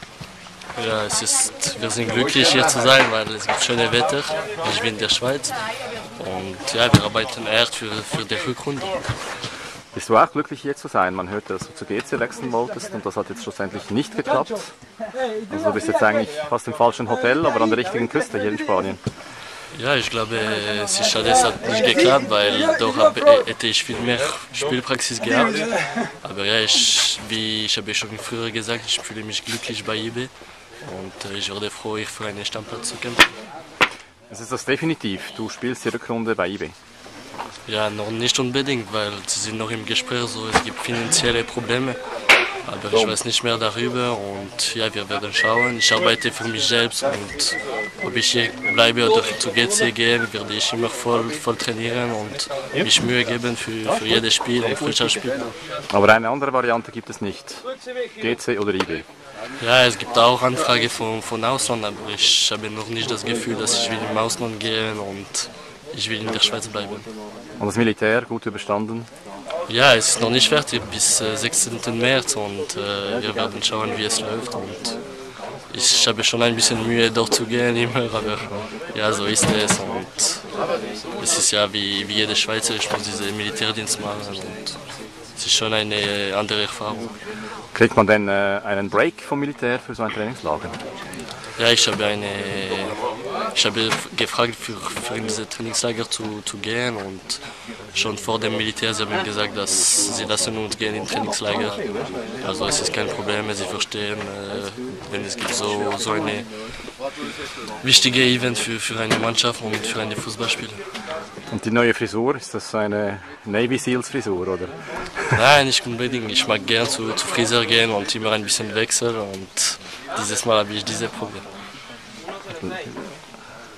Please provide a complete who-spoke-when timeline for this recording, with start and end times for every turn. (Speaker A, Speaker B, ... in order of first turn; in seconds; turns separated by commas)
Speaker A: 0.8-5.6, Speaker A: 6.2-9.0, Speaker B: 9.9-14.7, Speaker B: 15.5-19.0, Speaker A: 19.7-30.3, Speaker A: 30.8-33.3, Speaker B: 34.3-36.7, Speaker A: 37.7-42.0, Speaker A: 42.6-55.4, Speaker B: 55.9-57.6, Speaker B: 58.2-59.0, Speaker A: 59.6-67.1, Speaker B: 67.6-69.1, Speaker A: 69.7-75.0, Speaker A: 75.7-80.4, Speaker A: 81.2-84.8, Speaker A: 85.4-87.1, Speaker B: 87.7-90.8, Speaker A: 91.6-93.0, Speaker A: 93.5-97.4, Speaker A: 97.9-101.8, Speaker A: 102.4-106.5, Speaker A: 107.8-110.8, Speaker B: 111.5-115.4, Speaker A: 115.3-121.5